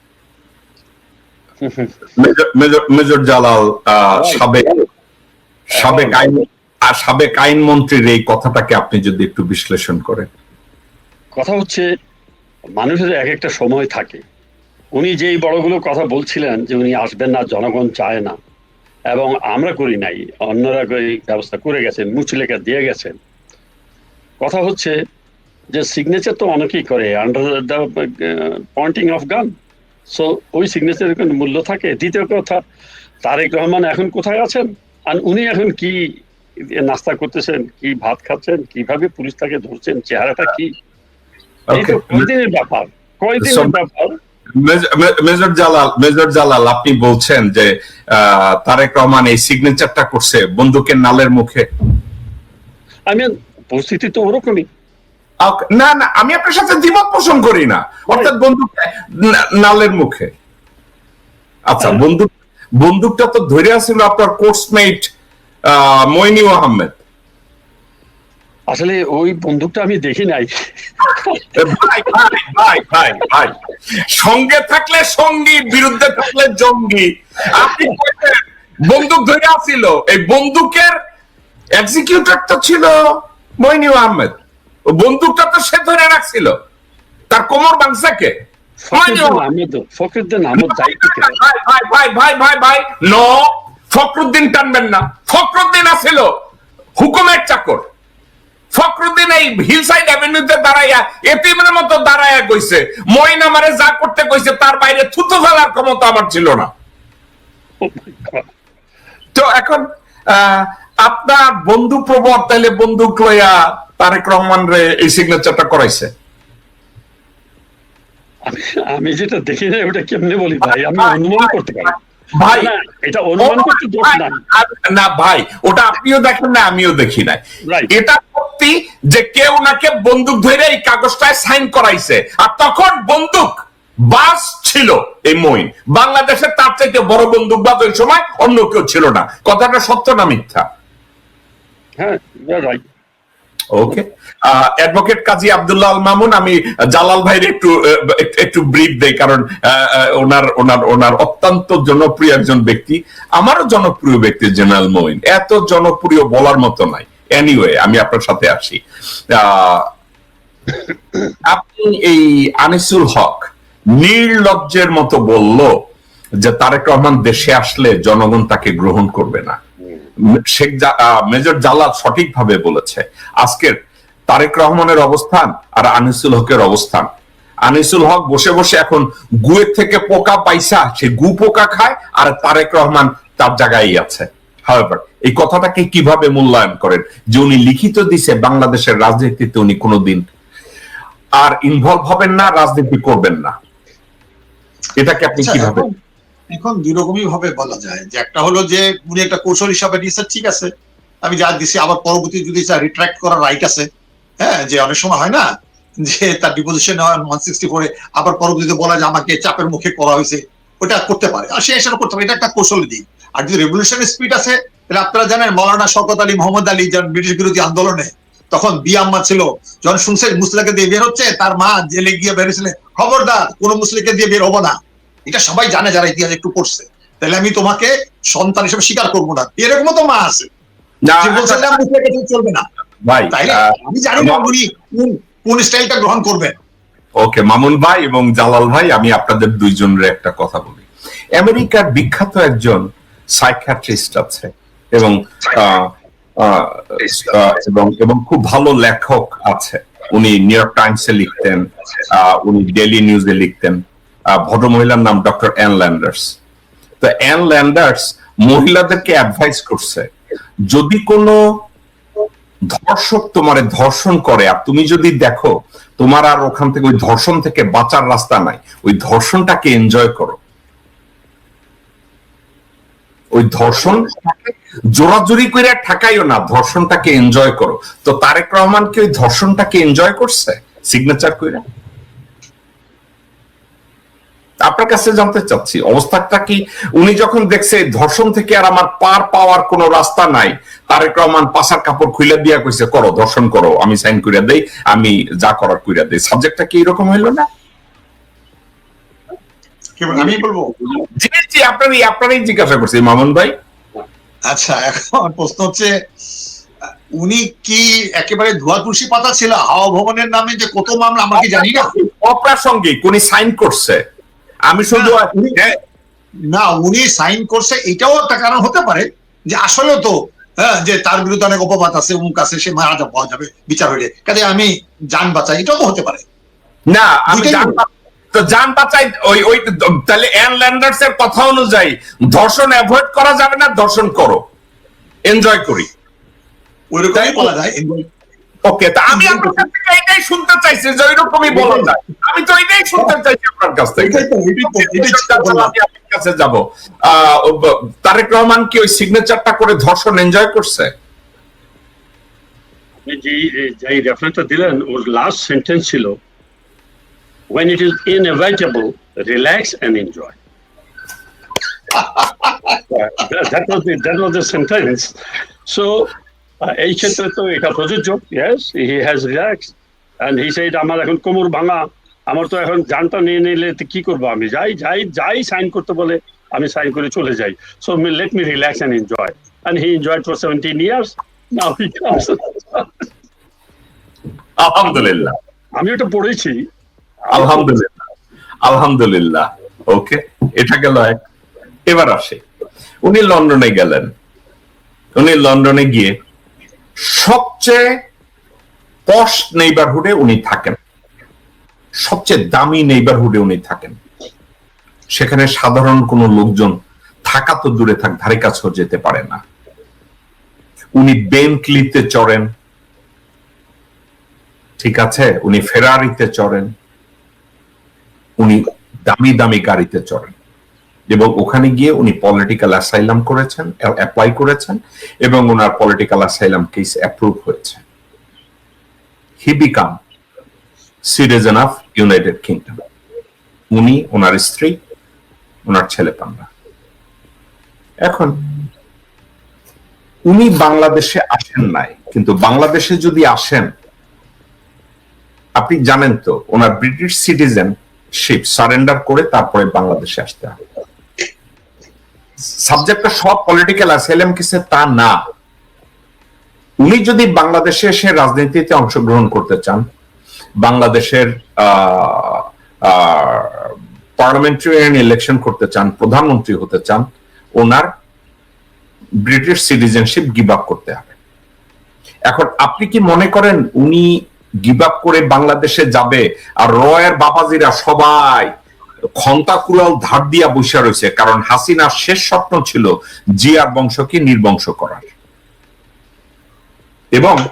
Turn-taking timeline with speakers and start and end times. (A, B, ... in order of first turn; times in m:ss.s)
0:01.6-0:01.9 A
0:02.2-0:04.7 B
0:04.1-0:04.5 A
0:05.8-0:10.3 B
0:05.8-0:06.3 A
0:11.4-0:11.9 A
0:12.8-0:14.2 A
0:15.0-0:18.4 A
0:19.1-0:23.2 A
0:24.4-0:25.0 A
0:25.7-0:29.5 A
0:30.1-0:32.6 A
0:33.2-0:40.7 A
0:41.7-0:42.3 B
0:41.7-0:44.2 A
0:43.4-0:43.8 B
0:44.6-0:51.6 B
0:53.1-0:54.7 A
0:55.4-1:00.3 B
1:01.7-1:05.1 B
1:05.7-1:07.0 B
1:08.7-1:12.1 A
1:11.6-1:13.6 B
1:14.1-1:21.0 B
1:21.8-1:24.3 B
1:24.9-1:26.6 B
1:27.3-1:28.4 B
1:28.8-1:31.4 A
1:28.9-1:29.4 B
1:30.6-1:36.3 B
1:37.0-1:37.8 B
1:38.7-1:46.7 B
1:47.8-1:48.5 A
1:49.4-1:56.1 B
1:58.5-2:04.4 A
2:00.7-2:01.5 B
2:02.4-2:02.7 B
2:03.4-2:20.7 B
2:22.0-2:22.8 A
2:23.7-2:38.8 B
2:39.3-2:39.9 B
2:41.5-2:45.7 B
2:46.4-2:49.6 B
2:50.2-2:53.8 B
2:54.3-2:57.1 B
2:57.7-3:10.2 B
3:11.4-3:13.5 B
3:15.0-3:15.9 B
3:15.4-3:15.9 C
3:16.5-3:20.7 C
3:21.2-3:23.9 C
3:24.4-3:25.4 C
3:26.0-3:44.8 C
3:45.3-3:50.5 C
3:51.1-3:51.8 B
3:51.2-3:52.6 C
3:53.0-3:54.5 B
3:53.3-3:56.6 C
3:57.2-4:00.9 B
4:01.4-4:02.8 B
4:03.4-4:16.4 B
4:17.0-4:20.1 B
4:20.7-4:21.4 B
4:22.7-4:30.4 B
4:33.3-4:41.6 B
4:44.6-4:57.5 B
5:00.0-5:00.7 C
5:01.2-5:03.5 B
5:04.5-5:05.9 C
5:07.2-5:11.9 C
5:11.4-5:14.0 B
5:14.7-5:15.8 B
5:14.9-5:15.6 C
5:16.5-5:26.2 C
5:26.9-5:34.4 B
5:27.3-5:27.8 C
5:35.3-5:35.9 B
5:36.9-5:38.0 C
5:37.2-5:37.5 B
5:38.7-5:50.9 B
5:39.1-5:39.6 C
5:41.5-5:41.9 C
5:44.0-5:45.7 C
5:53.0-5:56.1 A
5:57.5-6:00.4 A
6:02.9-6:05.1 A
6:05.7-6:06.1 A
6:06.7-6:09.7 A
6:10.2-6:23.1 A
6:24.6-6:25.4 B
6:25.8-6:26.6 A
6:27.3-6:27.7 A
6:27.3-6:27.9 B
6:28.6-6:31.2 B
6:31.9-6:32.4 B
6:33.0-6:34.1 B
6:35.2-6:36.1 B
6:37.0-6:37.8 B
6:39.1-6:40.8 B
6:42.0-6:44.0 B
6:45.1-6:49.4 B
6:51.0-6:52.5 B
6:54.8-6:56.7 B
6:58.4-7:00.3 B
7:01.1-7:07.8 B
7:09.4-7:10.0 B
7:11.1-7:12.8 B
7:13.7-7:14.8 B
7:15.7-7:16.5 B
7:18.1-7:18.4 B
7:20.3-7:23.7 B
7:25.6-7:30.6 B
7:32.6-7:35.2 B
7:36.8-7:39.8 B
7:40.6-7:47.1 B
7:47.6-7:47.9 B
7:49.2-7:51.2 B
7:52.3-7:54.1 B
7:54.6-7:58.5 B
7:59.2-8:02.9 B
8:03.4-8:05.1 B